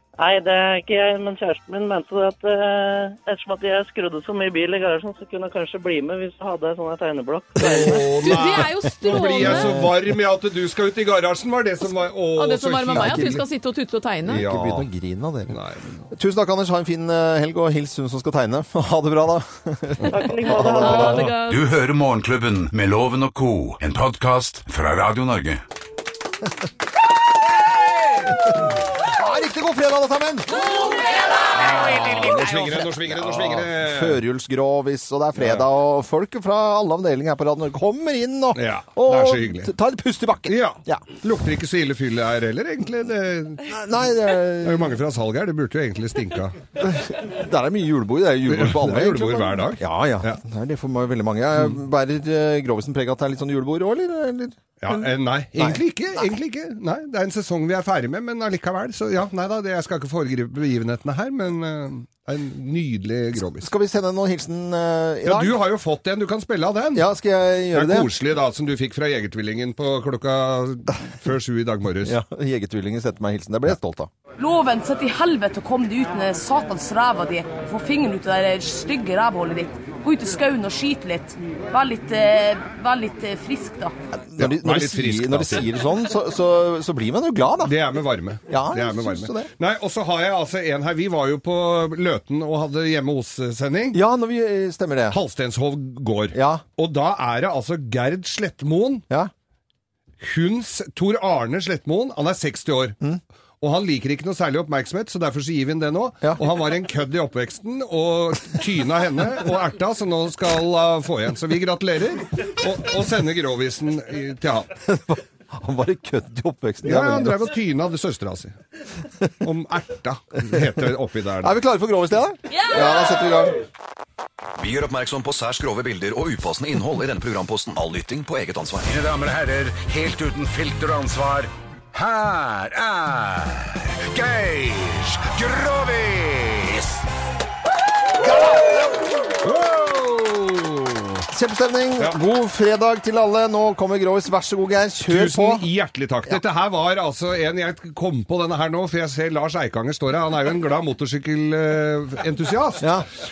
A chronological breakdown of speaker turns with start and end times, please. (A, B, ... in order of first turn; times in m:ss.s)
0:00.2-0:08.0 A
0:07.6-0:13.4 B
0:07.6-0:08.0 C
0:08.0-0:09.8 D
0:09.4-0:10.0 C
0:12.4-0:14.4 D
0:12.9-0:13.4 C
0:14.2-0:14.9 B
0:14.3-0:15.6 C
0:15.5-0:16.0 B
0:16.1-0:21.2 C
0:20.1-0:21.2 A
0:20.4-0:21.6 D
0:21.0-0:21.3 B
0:21.4-0:25.6 E
0:28.5-0:30.7 C
0:31.4-0:34.2 B
0:31.7-0:41.1 C
0:35.4-0:35.6 B
0:38.5-0:39.7 B
0:40.5-0:43.7 B
0:43.7-0:45.0 C
0:44.6-0:46.6 B
0:46.8-0:55.0 C
0:48.5-0:50.4 B
0:54.8-1:03.7 B
0:55.6-0:56.3 C
1:03.5-1:05.6 C
1:05.2-1:07.0 B
1:06.9-1:08.1 C
1:07.7-1:12.2 B
1:12.0-1:14.1 C
1:14.4-1:24.0 F
1:24.3-1:27.7 C
1:24.4-1:25.7 B
1:27.6-1:34.0 B
1:28.5-1:29.5 C
1:33.9-1:35.2 C
1:35.1-1:39.0 B
1:36.3-1:36.6 C
1:40.2-1:43.0 B
1:43.6-1:54.7 B
1:54.8-1:57.4 C
1:56.8-1:58.5 B
1:59.4-2:01.5 B
2:01.4-2:03.6 C
2:02.6-2:03.2 F
2:04.6-2:08.9 G
2:08.8-2:17.0 E
2:19.4-2:21.2 B
2:21.3-2:25.7 C
2:25.1-2:32.9 B
2:32.8-2:33.0 C